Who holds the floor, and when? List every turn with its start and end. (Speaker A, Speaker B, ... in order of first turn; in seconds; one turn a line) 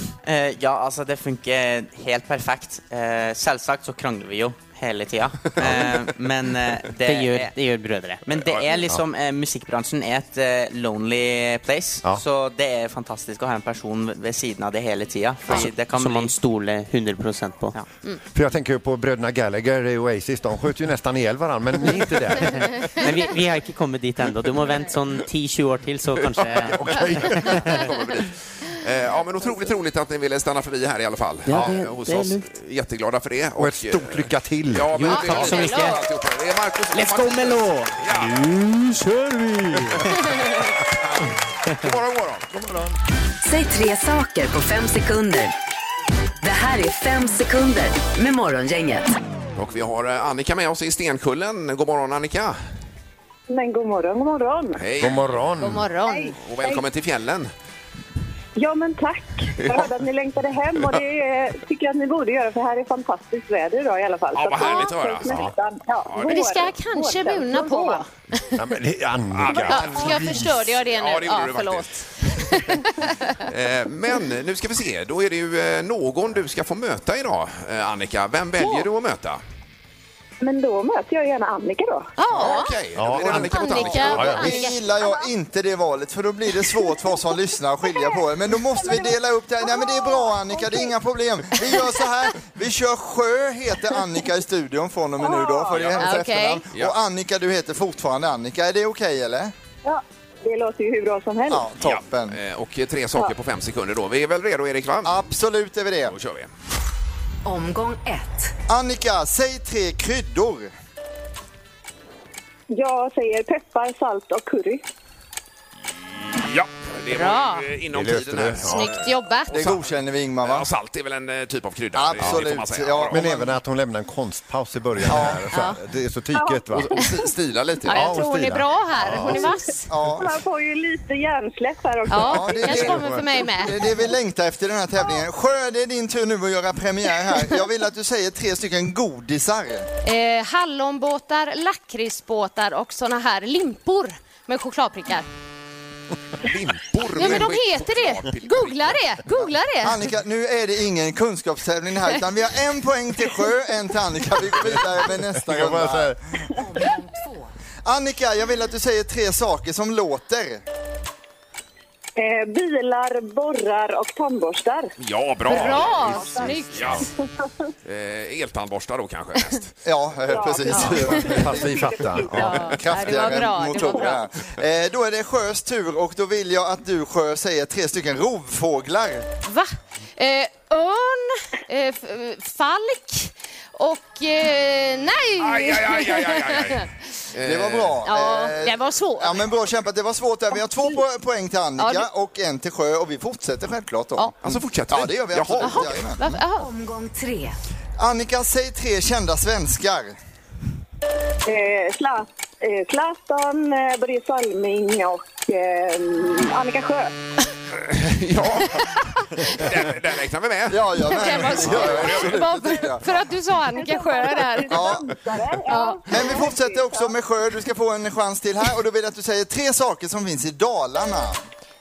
Speaker A: 0.2-7.5
Speaker B: 7.1-8.2
Speaker A: 8.2-16.4
Speaker B: 15.5-17.8
Speaker C: 18.3-22.7
Speaker B: 22.9-26.8
Speaker D: 26.4-38.4
Speaker C: 26.6-27.8
Speaker B: 27.4-27.8
Speaker B: 31.5-32.5
Speaker C: 31.5-31.8
Speaker C: 33.6-35.0
Speaker B: 34.9-36.0
Speaker E: 35.1-36.0
Speaker B: 36.9-40.1
Speaker D: 40.1-40.5
Speaker D: 41.1-42.5
Speaker C: 42.5-43.0
Speaker F: 43.4-45.5
Speaker F: 46.4-49.1
Speaker D: 49.6-52.6
Speaker G: 53.5-54.9
Speaker D: 54.8-55.4
Speaker C: 55.0-55.9
Speaker E: 55.6-56.3
Speaker G: 56.1-56.8
Speaker D: 56.4-57.5
Speaker G: 58.6-68.0
Speaker D: 59.6-59.9
Speaker D: 64.3-65.5
Speaker E: 64.6-65.1
Speaker D: 66.1-66.5
Speaker E: 66.2-68.5
Speaker C: 68.6-70.5
Speaker D: 69.3-72.5
Speaker E: 69.5-73.4
Speaker D: 73.4-79.4
Speaker G: 80.4-82.1
Speaker E: 82.2-85.3
Speaker D: 82.3-84.5
Speaker C: 83.0-84.5
Speaker H: 84.1-99.5
Speaker G: 87.9-90.9
Speaker G: 95.2-96.0
Speaker D: 95.7-96.2
Speaker E: 96.0-96.6
Speaker G: 99.8-101.7
Speaker H: 101.5-102.4
Speaker D: 101.8-105.2
Speaker H: 105.0-106.2
Speaker D: 106.1-106.5
Speaker F: 107.5-108.5
Speaker H: 108.7-110.7
Speaker G: 112.7-114.8
Speaker D: 116.3-123.2
Speaker E: 117.1-117.7
Speaker C: 117.9-119.0
Speaker E: 118.7-119.8
Speaker H: 119.5-120.7
Speaker H: 121.9-123.5
Speaker C: 122.2-122.5
Speaker C: 123.1-127.0
Speaker H: 125.1-125.5
Speaker E: 125.5-125.8
Speaker G: 126.3-127.1
Speaker D: 126.7-127.9
Speaker H: 127.6-128.0
Speaker E: 127.9-129.9
Speaker C: 127.9-129.5
Speaker G: 129.2-129.5
Speaker H: 129.9-130.4
Speaker G: 130.2-132.9
Speaker E: 132.1-133.8
Speaker H: 132.2-139.9
Speaker E: 140.0-145.3
Speaker D: 146.4-149.0
Speaker E: 147.1-150.0
Speaker H: 149.8-156.2
Speaker C: 155.1-156.2
Speaker F: 156.6-157.5
Speaker H: 157.8-160.6
Speaker G: 162.2-164.9
Speaker D: 165.0-167.1
Speaker E: 165.5-167.0
Speaker G: 166.0-167.1
Speaker D: 167.8-169.7
Speaker H: 169.8-171.8
Speaker G: 170.3-172.8
Speaker E: 170.7-171.4
Speaker C: 171.2-172.8
Speaker E: 172.3-174.2
Speaker H: 172.4-179.3
Speaker G: 173.7-174.2
Speaker E: 179.4-186.9
Speaker D: 185.4-188.0
Speaker H: 187.4-196.4
Speaker E: 188.1-189.5
Speaker E: 191.8-192.1
Speaker D: 194.4-196.1
Speaker E: 195.6-196.7
Speaker F: 196.6-197.6
Speaker H: 198.0-200.2
Speaker G: 201.5-207.1
Speaker D: 207.8-208.9
Speaker D: 209.4-212.4
Speaker H: 210.7-213.1
Speaker E: 211.1-215.0
Speaker G: 213.7-217.1
Speaker H: 214.7-215.1
Speaker E: 215.7-216.5
Speaker H: 216.1-221.4